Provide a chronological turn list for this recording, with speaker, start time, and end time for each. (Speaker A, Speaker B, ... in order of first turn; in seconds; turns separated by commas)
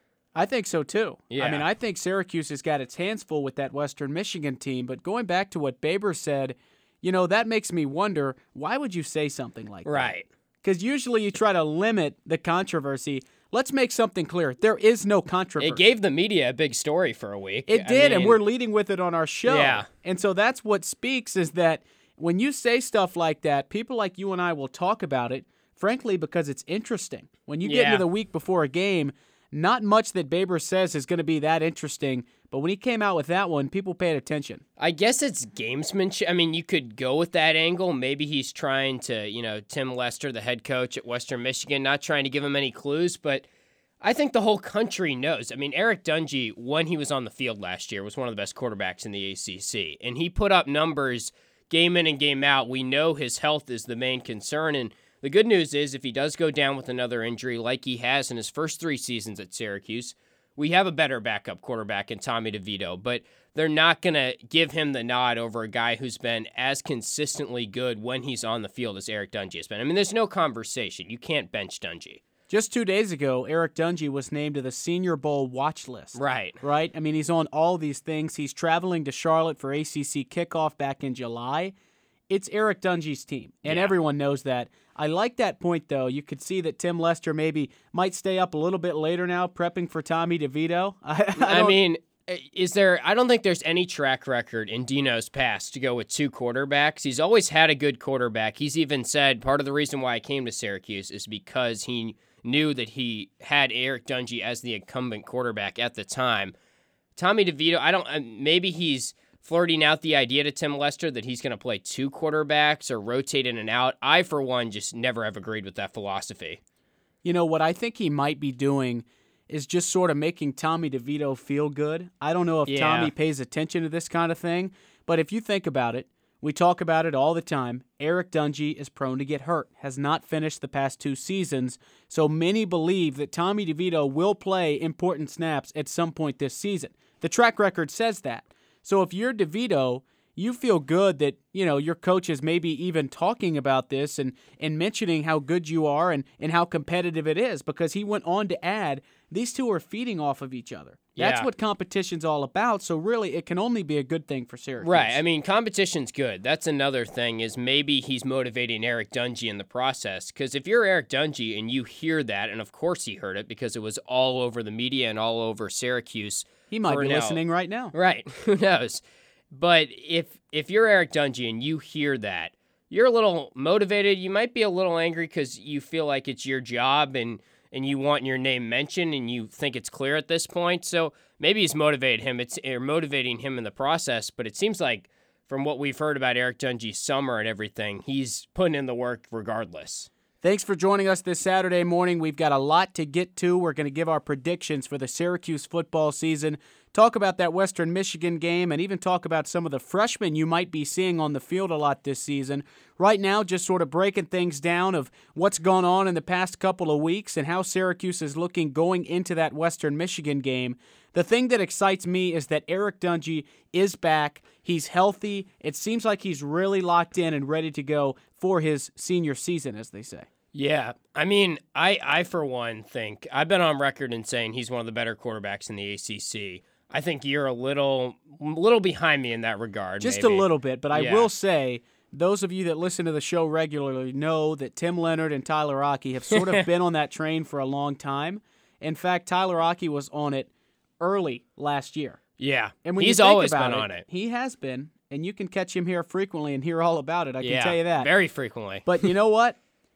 Speaker A: 0.3-15.8, Speaker B: 1.3-1.7, Speaker B: 9.8-10.2, Speaker B: 15.6-18.4, Speaker A: 17.7-34.6, Speaker B: 19.5-19.9, Speaker B: 27.6-28.0, Speaker B: 34.8-43.5, Speaker B: 44.0-72.2, Speaker A: 72.5-81.7, Speaker B: 76.2-76.6, Speaker A: 82.3-91.8, Speaker B: 83.7-83.9, Speaker B: 91.4-106.5, Speaker B: 107.2-116.6, Speaker A: 117.2-155.2, Speaker B: 122.7-123.1, Speaker B: 151.2-151.5, Speaker B: 154.8-167.4, Speaker A: 166.7-167.9, Speaker B: 167.9-190.1, Speaker A: 190.4-220.3, Speaker B: 220.5-231.3, Speaker A: 230.0-240.5, Speaker B: 236.3-236.7, Speaker A: 241.0-242.2, Speaker B: 242.4-244.1, Speaker A: 242.8-248.1, Speaker B: 247.4-249.1, Speaker A: 248.9-249.6